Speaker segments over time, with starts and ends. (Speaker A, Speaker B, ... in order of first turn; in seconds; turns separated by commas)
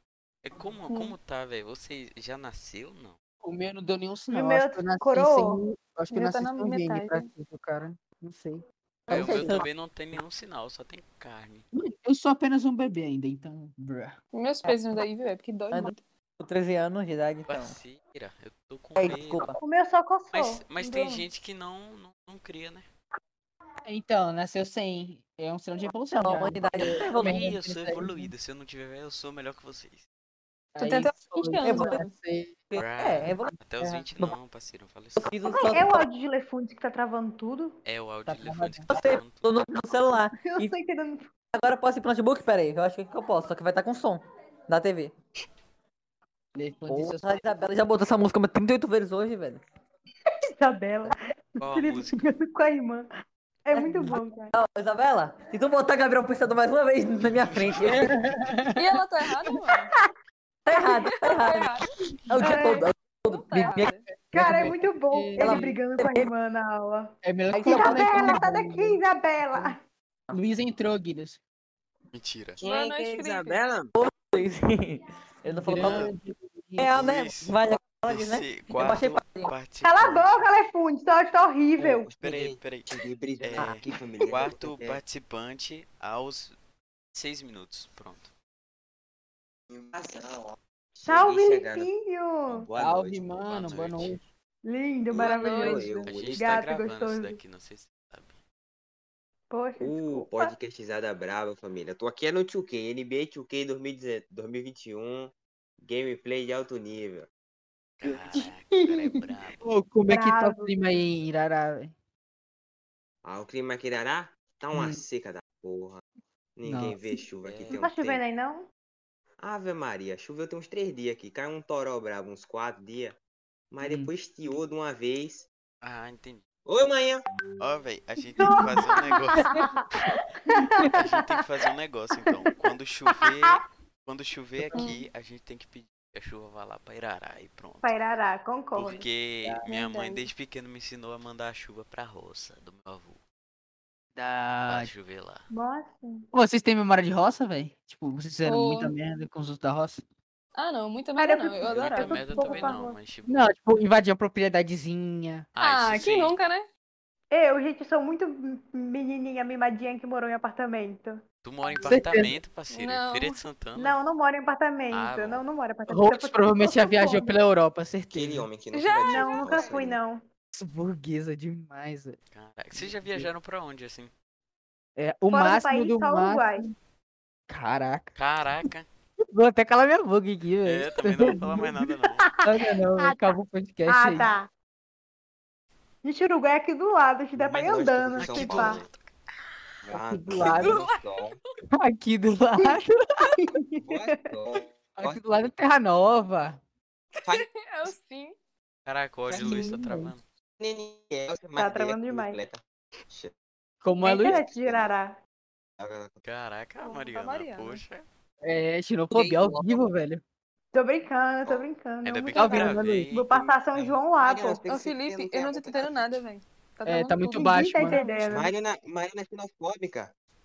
Speaker A: 0.4-3.1, Speaker B: 0.9-1.1, Speaker C: 3.4-9.5, Speaker D: 4.3-5.6, Speaker B: 6.1-7.3, Speaker E: 9.1-9.7, Speaker A: 9.1-11.7, Speaker C: 11.7-14.2, Speaker B: 14.3-16.0, Speaker E: 15.7-17.8, Speaker A: 17.5-19.5, Speaker E: 19.0-19.6, Speaker D: 19.6-21.2, Speaker A: 20.3-22.9, Speaker C: 23.9-28.3, Speaker E: 26.1-27.5, Speaker A: 26.8-30.0, Speaker C: 30.7-32.6, Speaker B: 30.8-32.0, Speaker E: 31.6-32.0, Speaker E: 32.7-34.3, Speaker A: 32.8-35.3, Speaker E: 35.2-36.1, Speaker D: 35.5-37.8, Speaker A: 37.8-39.5, Speaker C: 38.2-38.9, Speaker E: 38.9-40.7, Speaker D: 40.5-41.3, Speaker E: 41.5-45.1, Speaker C: 46.5-47.4, Speaker E: 46.9-49.6, Speaker D: 50.6-53.1, Speaker A: 51.6-52.3, Speaker D: 53.6-54.5, Speaker E: 53.7-58.1, Speaker A: 57.4-58.6, Speaker C: 57.9-58.8, Speaker B: 58.8-59.9, Speaker E: 60.6-61.7, Speaker B: 60.8-61.9, Speaker E: 62.3-63.9, Speaker D: 62.4-62.9, Speaker B: 63.3-64.0, Speaker C: 63.6-65.8, Speaker D: 64.3-67.1, Speaker E: 65.4-66.3, Speaker C: 67.2-69.0, Speaker E: 67.5-68.4, Speaker D: 67.7-69.8, Speaker C: 70.3-71.4, Speaker A: 72.1-72.6, Speaker F: 72.6-73.9, Speaker B: 72.6-73.6, Speaker E: 74.0-76.1, Speaker C: 75.5-77.0, Speaker A: 75.7-76.1, Speaker E: 76.8-79.5, Speaker A: 76.9-80.5, Speaker D: 79.8-82.1, Speaker F: 81.8-85.0, Speaker A: 82.2-86.5, Speaker A: 87.1-88.3, Speaker F: 89.7-91.9, Speaker D: 91.0-92.7, Speaker F: 92.5-93.8, Speaker C: 92.8-94.2, Speaker A: 93.5-94.2, Speaker D: 94.6-97.4, Speaker F: 95.1-96.5, Speaker B: 95.2-95.9, Speaker A: 96.1-98.4, Speaker D: 99.5-100.5, Speaker F: 99.8-107.3, Speaker A: 108.0-109.6, Speaker C: 108.1-108.4, Speaker C: 109.6-111.9, Speaker D: 110.1-110.7, Speaker F: 113.2-116.0, Speaker C: 114.7-115.0, Speaker F: 116.5-118.2, Speaker C: 116.7-117.0, Speaker A: 117.4-117.8, Speaker D: 117.7-118.7, Speaker F: 119.4-123.2, Speaker F: 123.7-125.5, Speaker C: 123.8-124.1, Speaker A: 125.8-126.4, Speaker F: 126.7-127.2, Speaker A: 127.6-130.1, Speaker D: 128.4-129.8, Speaker D: 130.5-130.9, Speaker A: 130.9-138.0, Speaker C: 134.6-134.9, Speaker B: 134.7-135.0, Speaker D: 137.8-139.0, Speaker A: 138.7-143.2, Speaker B: 139.7-140.3, Speaker C: 144.2-144.9, Speaker A: 144.7-145.4, Speaker D: 145.5-146.2, Speaker C: 146.3-150.0, Speaker B: 148.4-148.9, Speaker B: 150.6-152.9, Speaker D: 151.2-152.9, Speaker A: 151.7-153.5, Speaker C: 153.3-155.5, Speaker A: 155.6-156.4, Speaker B: 155.6-156.7, Speaker D: 157.3-161.9, Speaker A: 161.4-164.0, Speaker C: 161.8-162.3, Speaker B: 162.7-163.4, Speaker D: 163.8-167.3, Speaker A: 164.9-165.4, Speaker C: 165.9-168.5, Speaker F: 168.1-170.0, Speaker B: 168.7-169.7, Speaker D: 169.1-170.2, Speaker C: 170.5-172.2, Speaker A: 172.3-174.1, Speaker C: 172.7-173.3, Speaker C: 175.0-176.8, Speaker D: 175.3-176.7, Speaker C: 177.5-178.1, Speaker A: 178.2-178.8, Speaker C: 179.3-181.7, Speaker A: 180.6-182.3, Speaker D: 182.2-183.2, Speaker C: 182.4-184.3, Speaker D: 183.9-184.5, Speaker D: 186.0-188.8, Speaker F: 187.3-188.9, Speaker A: 188.2-189.1, Speaker F: 189.8-191.4, Speaker C: 189.9-190.8, Speaker B: 190.6-190.9, Speaker C: 191.7-193.3, Speaker D: 193.3-194.2, Speaker F: 193.8-195.5, Speaker C: 195.0-196.6, Speaker B: 197.3-198.3, Speaker A: 198.8-200.2, Speaker C: 199.3-200.1, Speaker F: 200.6-203.3, Speaker D: 201.6-202.4, Speaker C: 203.8-204.4, Speaker D: 204.0-205.2, Speaker F: 204.2-204.9, Speaker F: 205.8-206.2, Speaker A: 206.2-208.0, Speaker B: 206.8-207.8, Speaker C: 208.4-210.2, Speaker E: 209.1-209.8, Speaker D: 210.7-214.6, Speaker A: 212.0-213.5, Speaker C: 212.3-213.1, Speaker F: 213.7-216.2, Speaker B: 214.7-218.4, Speaker C: 216.8-218.0, Speaker D: 217.4-218.5, Speaker F: 218.3-220.1